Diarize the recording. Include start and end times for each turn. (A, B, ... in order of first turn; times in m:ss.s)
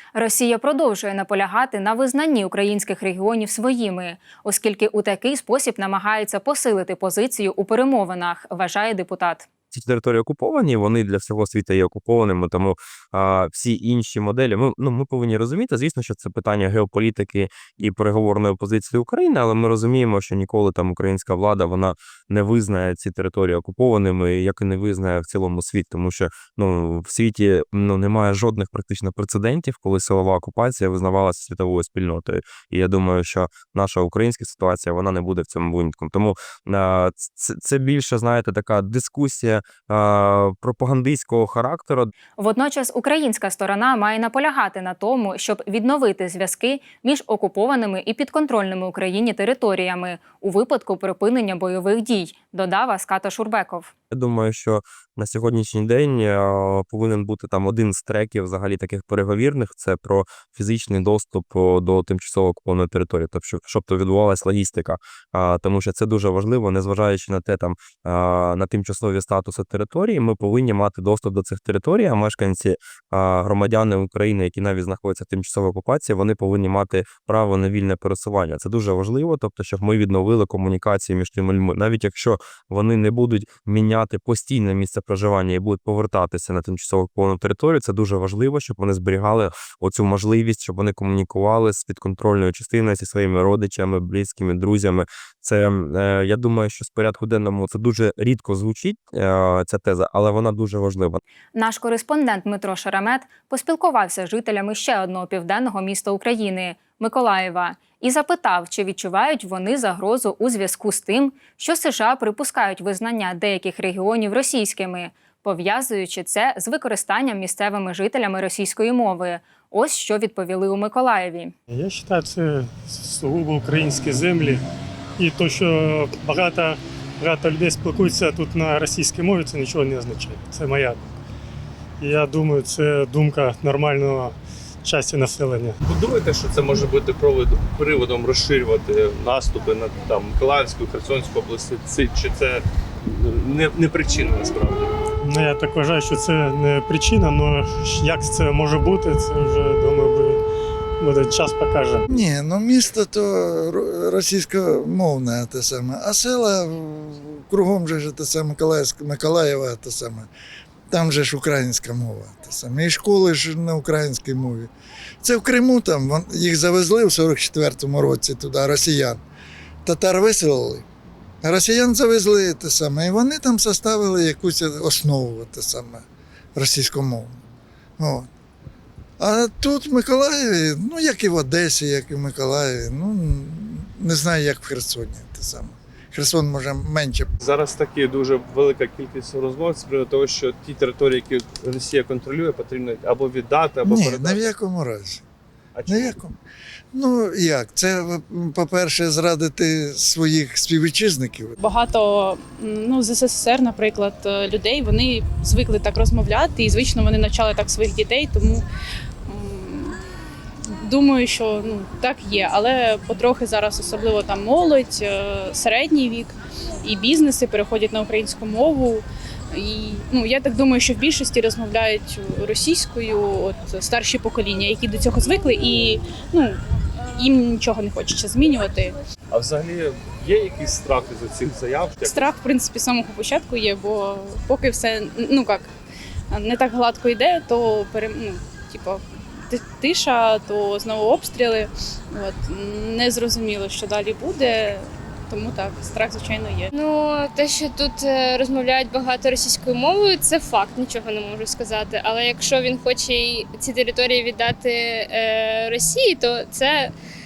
0:00.2-0:09.5 A
0:09.7-0:42.1 B
0:42.4-0:53.9 A
0:54.1-1:41.2 B
1:41.6-2:01.6 A
2:01.7-2:04.6 C
2:05.2-2:11.1 C
2:12.0-2:15.8 C
2:15.9-2:24.9 D
2:25.2-2:30.4 C
2:31.0-2:32.2 C
2:32.1-2:40.3 E
2:40.9-2:44.7 E
2:45.2-2:49.2 E
2:49.8-2:50.8 E
2:51.4-2:56.0 E
2:56.6-2:57.4 E
2:58.0-2:58.3 E
2:59.2-3:07.3 E
3:07.4-3:14.4 D
3:13.8-3:15.2 E
3:15.8-3:16.2 D
3:15.9-3:16.4 E
3:16.9-3:21.6 E
3:21.6-3:28.6 F
3:29.3-3:30.0 F
3:30.8-3:46.6 F
3:47.1-3:48.9 F
3:49.3-3:52.1 D
3:52.0-3:55.7 F
3:56.3-4:06.7 F
4:06.8-4:16.9 G